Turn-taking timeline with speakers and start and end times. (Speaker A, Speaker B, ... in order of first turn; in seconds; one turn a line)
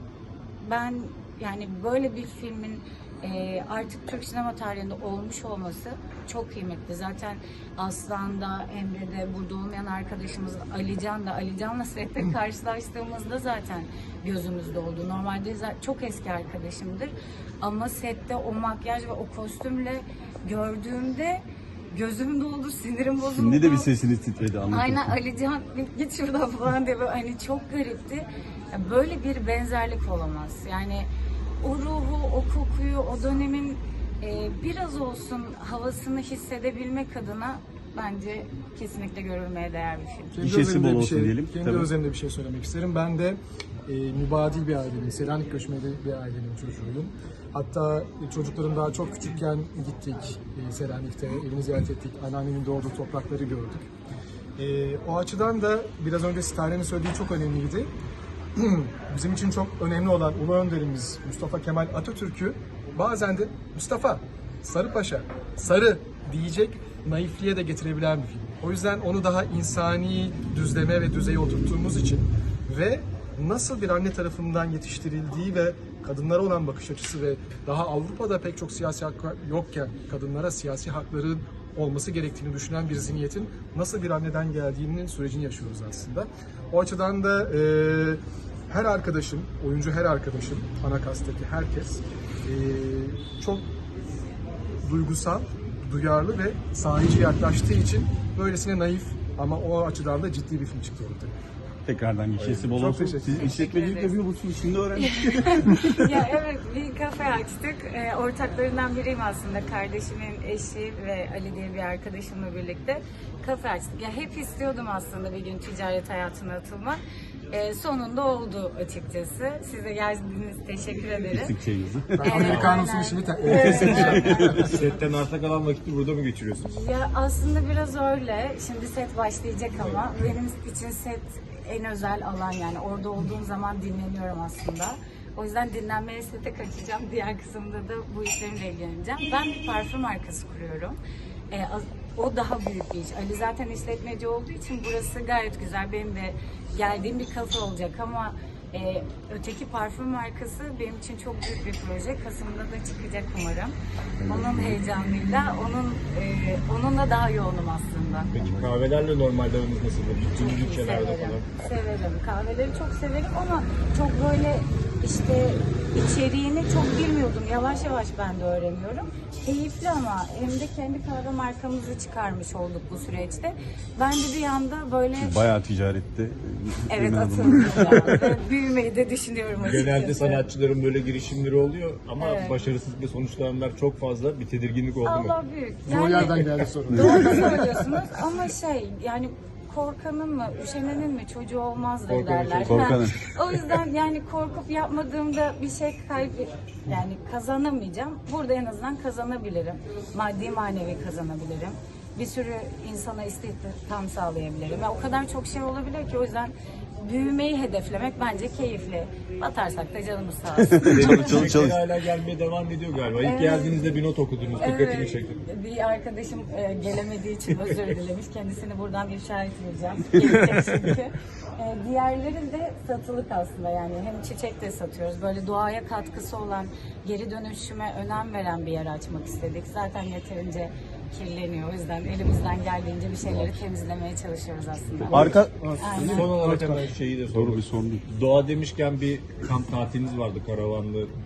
Speaker A: 0.6-23.9
Speaker B: 23.2-25.1
Speaker A: 24.7-31.1
Speaker A: 31.6-40.4
Speaker C: 40.3-53.9
Speaker B: 40.4-41.9
Speaker C: 54.6-57.9
Speaker C: 58.6-93.7
Speaker C: 94.8-101.3
Speaker B: 101.9-106.2
Speaker D: 102.4-102.7
Speaker C: 102.7-103.7
Speaker A: 103.4-104.2
Speaker A: 105.0-117.0
Speaker A: 117.5-121.6
Speaker B: 121.3-122.7
Speaker C: 122.2-124.7
Speaker A: 122.2-124.5
Speaker D: 123.4-126.7
Speaker B: 124.0-124.6
Speaker A: 126.6-141.0
Speaker A: 141.5-158.3
Speaker B: 154.2-154.8
Speaker D: 158.3-161.5
Speaker B: 158.4-158.7
Speaker A: 160.3-175.4
Speaker B: 175.2-178.2
Speaker A: 176.9-180.5
Speaker D: 179.6-185.3
Speaker A: 182.2-182.6
Speaker A: 185.0-211.4
Speaker C: 185.9-188.0
Speaker D: 192.1-193.0
Speaker B: 192.7-193.2
Speaker B: 210.6-211.8
Speaker D: 210.8-215.4
Speaker A: 213.2-213.9
Speaker A: 214.6-236.3
Speaker B: 235.0-236.3
Speaker D: 235.1-235.4
Speaker C: 235.3-236.9
Speaker D: 236.0-241.1
Speaker B: 237.3-238.0